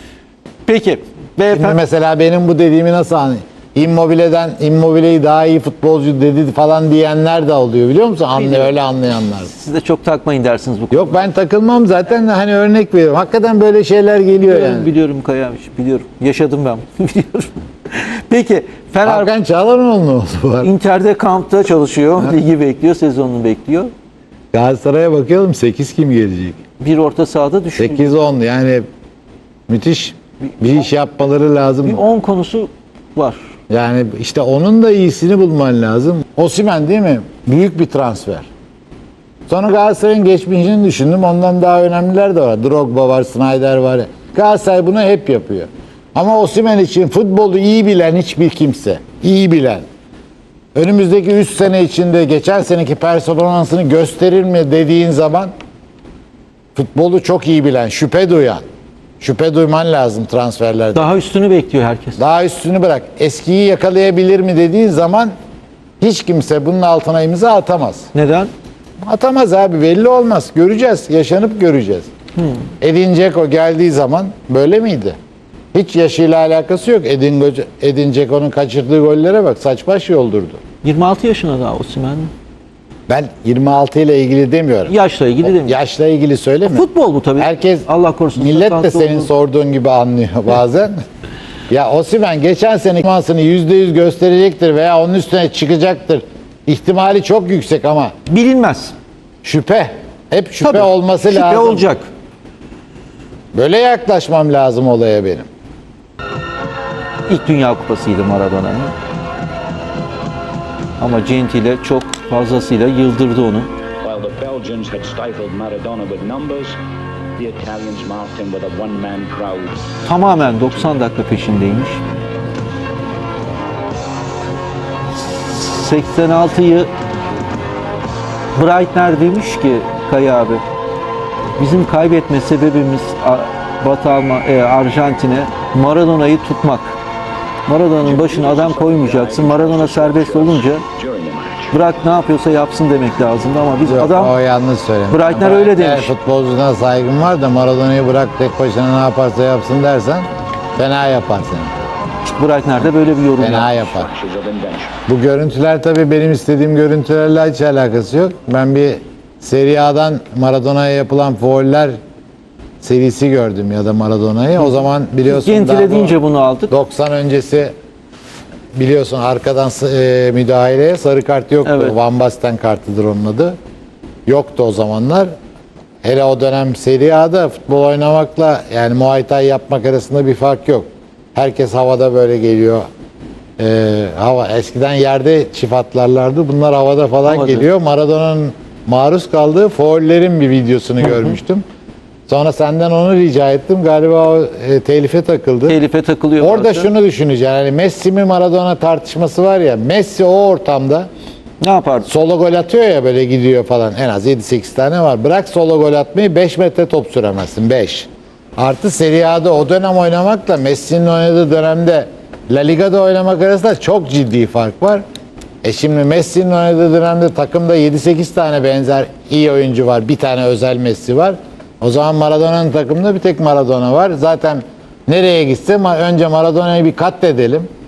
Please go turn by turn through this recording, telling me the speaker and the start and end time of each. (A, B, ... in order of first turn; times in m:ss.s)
0:00.7-0:01.8 A
0:01.5-0:09.5 B
0:08.4-0:08.7 A
0:09.5-0:11.2 A
0:10.9-0:14.9 B
0:14.4-0:19.3 A
0:19.0-0:20.7 B
0:20.6-0:23.9 A
0:24.5-0:26.6 B
0:26.8-0:28.2 A
0:27.8-0:28.9 B
0:29.7-0:32.0 B
0:31.8-0:33.4 A
0:33.7-0:38.5 B
0:39.5-0:49.8 B
0:50.8-0:55.5 B
0:56.8-0:58.6 B
0:59.2-1:01.1 B
1:01.0-1:02.2 A
1:02.2-1:05.3 B
1:06.0-1:08.1 B
1:08.1-1:08.5 A
1:09.0-1:12.1 B
1:12.4-1:12.6 A
1:12.8-1:15.2 B
1:15.7-1:20.6 B
1:20.8-1:22.3 A
1:23.1-1:31.0 B
1:24.9-1:25.8 A
1:26.7-1:29.3 A
1:31.7-1:38.1 B
1:38.3-1:38.9 A
1:39.4-1:41.8 B
1:40.6-1:42.1 A
1:43.5-1:45.5 B
1:47.3-1:48.9 A
1:51.0-1:53.7 A
1:54.0-1:56.8 C
1:57.4-2:00.8 C
2:00.1-2:02.0 A
2:05.5-2:06.9 A
2:08.6-2:10.6 A
2:11.6-2:17.0 A
2:17.7-2:20.8 A
2:18.0-2:21.8 C
2:21.7-2:24.3 A
2:23.9-2:31.7 B
2:25.1-2:26.1 A
2:32.3-2:33.9 A
2:33.4-2:34.1 B
2:33.9-2:35.0 C
2:35.1-2:42.0 B
2:42.8-2:46.2 B
2:45.3-2:46.7 A
2:46.7-2:47.7 B
2:48.7-2:53.6 B
2:51.6-2:52.0 A
2:54.3-2:55.3 B
2:56.0-3:02.9 B
3:03.6-3:11.6 B
3:07.3-3:07.7 A
3:11.0-3:11.3 A
3:12.3-3:15.8 B
3:15.7-3:16.9 A
3:16.4-3:21.1 B
3:21.6-3:22.1 A
3:22.1-3:35.0 B
3:35.6-3:47.7 B